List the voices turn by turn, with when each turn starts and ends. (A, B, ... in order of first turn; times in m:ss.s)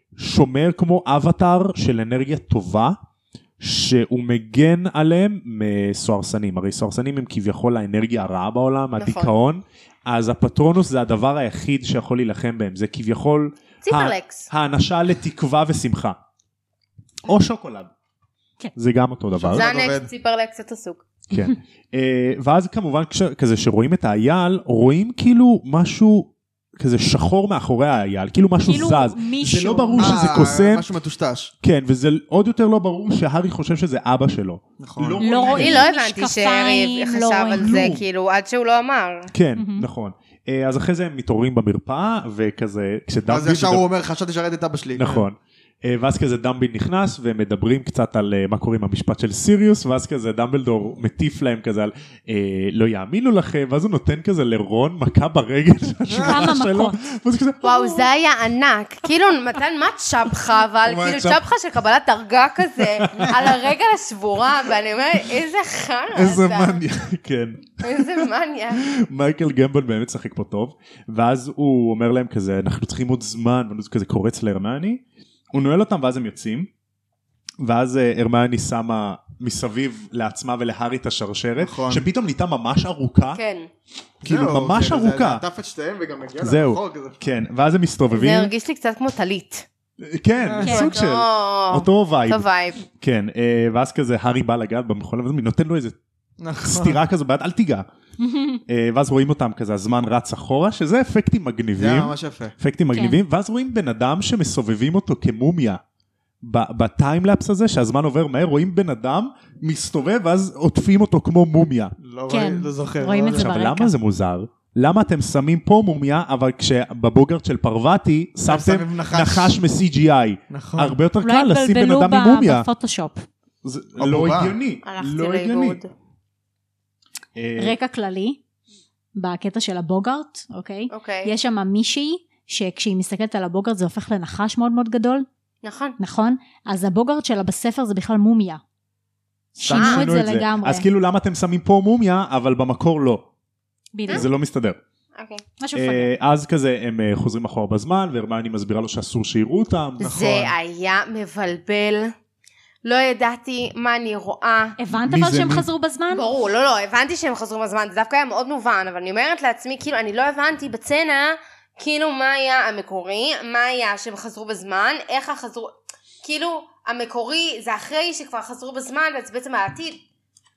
0:00.2-0:03.0 A
0:03.6-0:16.2 A
0:09.0-0:09.3 B
0:13.8-0:14.5 B
0:17.2-0:17.9 A
0:18.8-0:19.7 A
0:19.4-0:20.1 C
0:19.5-0:21.0 B
0:21.3-0:30.8 A
0:28.6-0:30.4 D
0:30.0-0:31.5 C
0:31.6-0:35.9 A
0:34.8-0:35.3 C
0:35.2-0:37.8 D
0:35.4-0:39.3 B
0:37.5-0:38.0 A
0:39.3-0:43.8 A
0:39.6-0:39.9 D
0:43.3-0:45.2 C
0:45.0-0:58.1 A
0:56.1-0:56.5 C
0:56.2-0:57.0 D
0:57.6-1:06.8 B
1:00.8-1:01.4 A
1:02.8-1:03.6 A
1:06.1-1:16.7 A
1:07.8-1:08.8 B
1:17.6-1:23.4 A
1:21.6-1:22.1 C
1:23.3-1:23.7 B
1:24.2-1:25.4 A
1:24.2-1:27.2 C
1:26.4-1:28.5 A
1:28.1-1:29.6 B
1:30.0-1:36.0 A
1:30.4-1:30.8 C
1:30.6-1:30.9 D
1:30.6-1:32.8 B
1:36.4-1:37.0 C
1:36.6-1:37.8 A
1:38.2-1:38.6 D
1:38.7-1:45.8 A
1:41.8-1:42.5 C
1:42.9-1:43.2 D
1:46.4-1:51.9 A
1:52.0-1:53.5 C
1:52.3-1:53.9 D
1:53.3-2:02.6 A
1:58.4-1:59.6 C
2:00.5-2:01.0 C
2:01.2-2:03.2 D
2:03.6-2:05.8 A
2:04.0-2:04.6 C
2:04.8-2:05.9 B
2:07.4-2:07.8 A
2:07.6-2:08.4 D
2:09.1-2:15.2 D
2:10.9-2:11.3 B
2:15.6-2:16.0 B
2:16.0-2:18.6 D
2:19.6-2:20.8 D
2:19.6-2:23.2 A
2:19.7-2:20.0 B
2:23.9-2:24.2 D
2:24.1-2:24.8 A
2:25.2-2:25.4 B
2:25.6-2:26.1 D
2:25.7-2:30.4 A
2:30.0-2:30.5 C
2:30.0-2:32.1 B
2:32.8-2:34.8 B
2:34.8-2:36.2 D
2:35.0-2:35.6 A
2:36.1-2:50.0 B